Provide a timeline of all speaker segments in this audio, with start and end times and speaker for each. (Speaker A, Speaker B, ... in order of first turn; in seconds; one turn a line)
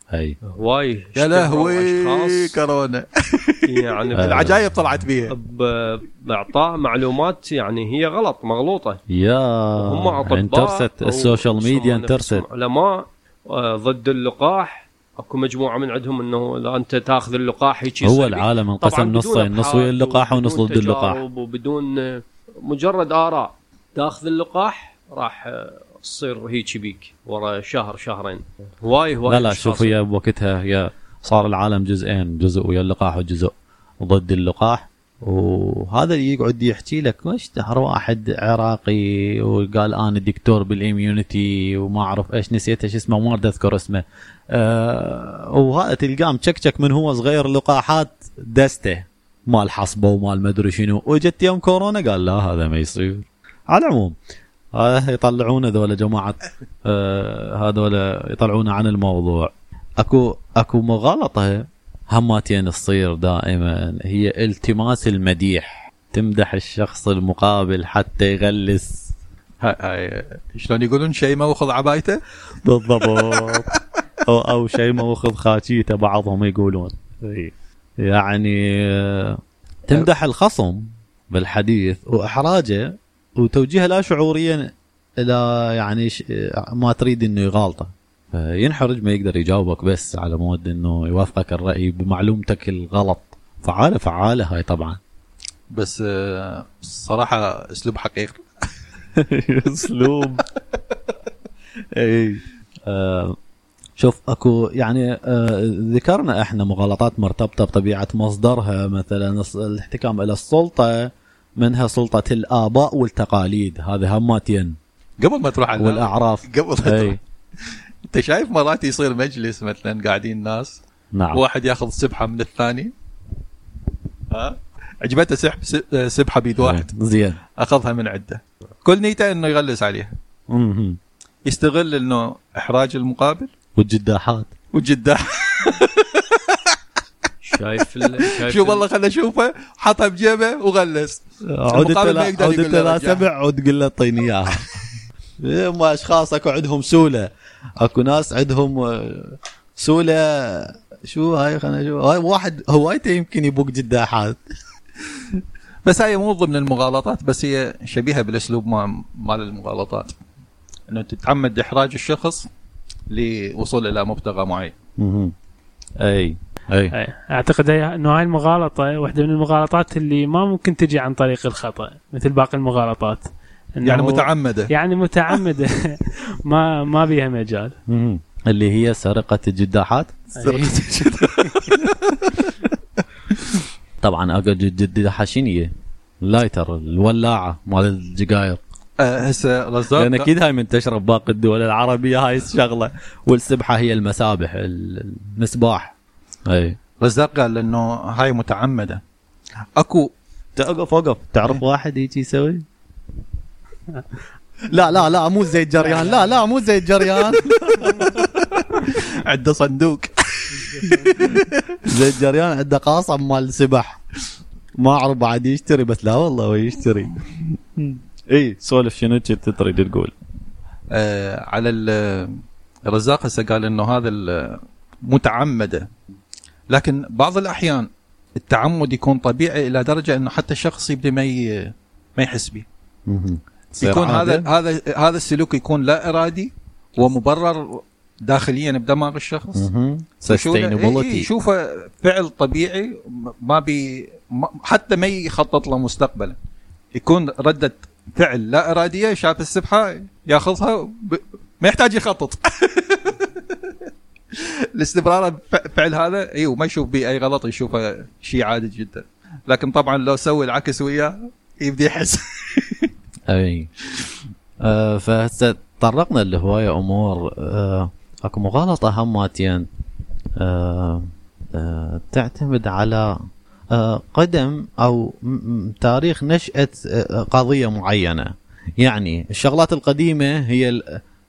Speaker A: 0.1-0.4
Speaker B: 0.4-2.6
Speaker C: 1.1-5.3
Speaker B: 3.7-4.5
Speaker A: 4.2-4.7
Speaker B: 5.3-9.0
Speaker A: 9.1-12.4
Speaker B: 9.8-29.9
Speaker A: 18.0-21.2
Speaker A: 29.3-54.1
Speaker A: 54.8-69.1
Speaker C: 69.6-72.2
Speaker A: 72.6-73.7
Speaker C: 72.9-73.8
Speaker A: 74.3-95.0
Speaker C: 95.7-98.4
Speaker A: 99.2-100.4
Speaker A: 102.0-103.4
Speaker A: 104.0-114.8
Speaker C: 115.2-120.8
Speaker A: 115.8-117.2
Speaker A: 121.1-121.4
Speaker C: 121.3-122.9
Speaker C: 124.3-126.9
Speaker A: 126.6-127.4
Speaker C: 127.6-130.1
Speaker A: 130.5-131.0
Speaker C: 131.4-133.5
Speaker A: 133.8-134.5
Speaker C: 134.7-136.8
Speaker B: 137.4-138.8
Speaker C: 138.0-141.2
Speaker A: 141.5-144.7
Speaker C: 141.7-143.2
Speaker A: 145.4-154.4
Speaker C: 155.3-160.1
Speaker C: 160.9-162.5
Speaker C: 163.1-164.7
Speaker A: 165.0-165.3
Speaker A: 166.0-166.9
Speaker D: 166.9-177.8
Speaker C: 173.8-174.7
Speaker A: 177.9-181.1
Speaker D: 180.4-181.5
Speaker C: 180.9-182.6
Speaker C: 183.3-183.6
Speaker A: 184.0-185.7
Speaker A: 186.2-188.6
Speaker C: 189.0-190.3
Speaker A: 189.9-195.9
Speaker A: 196.5-196.8
Speaker C: 197.0-199.0
Speaker C: 199.8-200.1
Speaker A: 200.6-202.6
Speaker A: 204.7-208.1
Speaker D: 205.8-206.4
Speaker C: 207.3-211.8
Speaker D: 210.6-211.1
Speaker A: 211.8-214.0
Speaker A: 214.8-220.1
Speaker C: 220.9-225.9
Speaker C: 226.7-232.6
Speaker A: 233.1-234.5
Speaker C: 233.8-239.7
Speaker A: 239.6-241.3
Speaker C: 240.3-246.4
Speaker C: 246.9-253.7
Speaker C: 254.3-262.9
Speaker A: 263.3-263.7
Speaker A: 264.6-269.7
Speaker A: 270.4-273.1
Speaker A: 273.7-281.0